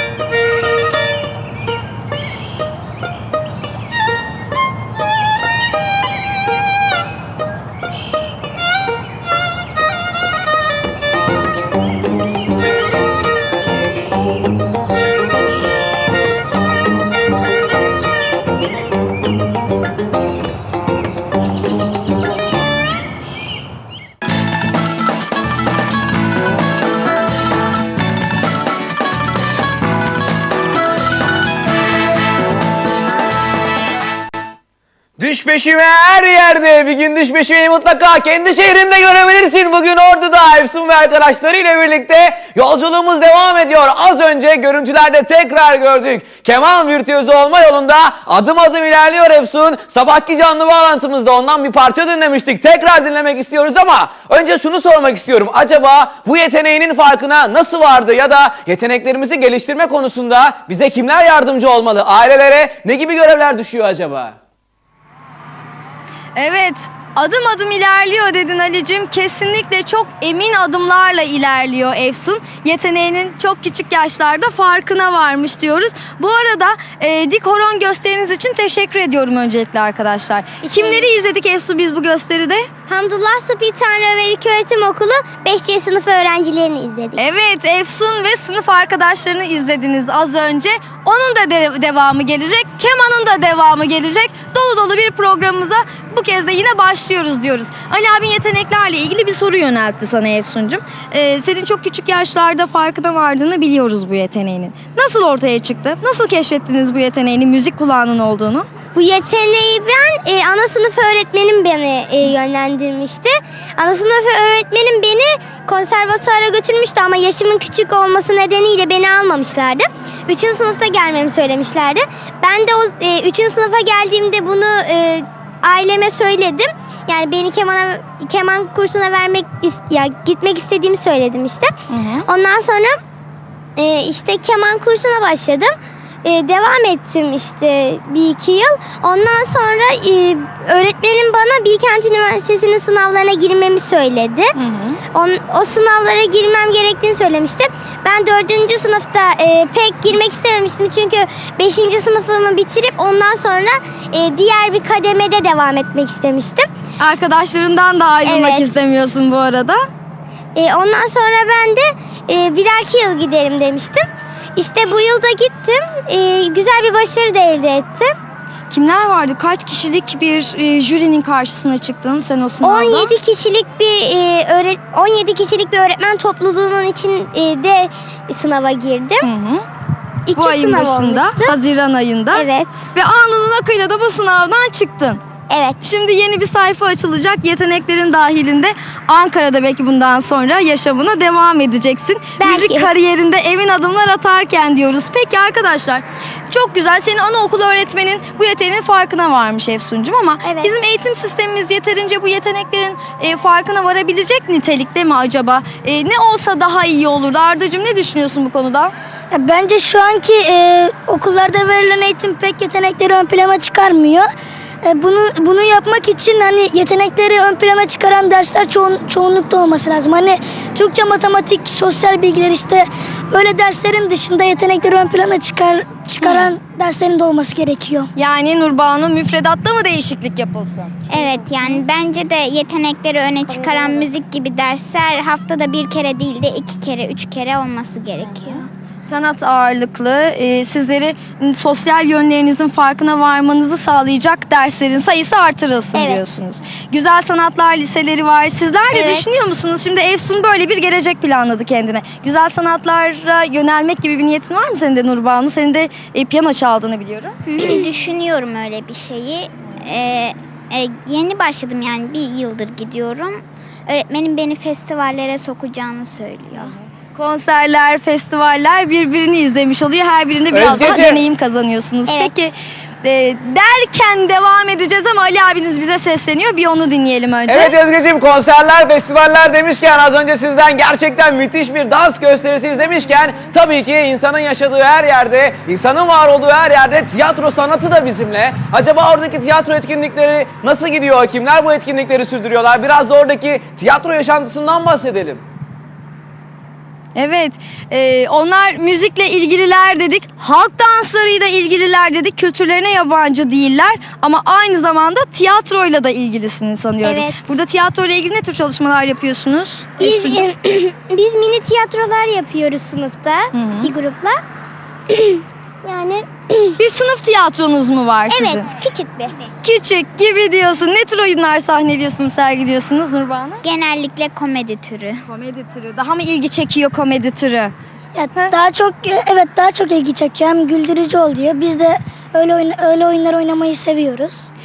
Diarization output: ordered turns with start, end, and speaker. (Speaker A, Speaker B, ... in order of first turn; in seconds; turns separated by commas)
Speaker A: 35.2-64.4, Speaker B: 66.4-82.7, Speaker C: 80.6-81.1, Speaker C: 82.9-87.3, Speaker B: 87.2-108.7, Speaker C: 109.0-131.7, Speaker B: 131.9-132.3, Speaker C: 132.2-133.0, Speaker C: 133.8-144.6, Speaker B: 144.6-145.0, Speaker C: 145.1-156.7, Speaker B: 157.0-159.8, Speaker C: 158.2-158.8, Speaker C: 160.6-168.1, Speaker B: 168.7-173.2, Speaker C: 172.6-179.3, Speaker B: 179.2-179.7, Speaker C: 180.3-181.6, Speaker B: 180.3-185.2, Speaker C: 182.3-182.9, Speaker C: 185.5-185.8, Speaker B: 185.8-208.9, Speaker C: 192.4-192.9, Speaker C: 200.4-200.8, Speaker D: 209.3-214.3, Speaker D: 214.8-228.1, Speaker B: 226.2-226.5, Speaker B: 228.2-231.0, Speaker E: 231.1-238.7, Speaker C: 231.2-231.5, Speaker C: 233.5-234.1, Speaker B: 239.1-257.4, Speaker C: 245.9-246.2, Speaker C: 248.9-249.3, Speaker E: 257.5-266.7, Speaker B: 267.1-277.8, Speaker A: 270.5-271.2, Speaker C: 272.1-272.3, Speaker A: 277.5-295.4, Speaker B: 297.2-310.4, Speaker C: 307.0-307.5, Speaker C: 310.0-314.4, Speaker B: 313.5-313.9, Speaker C: 315.1-316.8, Speaker B: 316.8-318.7, Speaker C: 318.3-319.4, Speaker B: 319.6-323.6, Speaker E: 323.6-325.2, Speaker B: 325.3-327.7, Speaker D: 328.1-334.5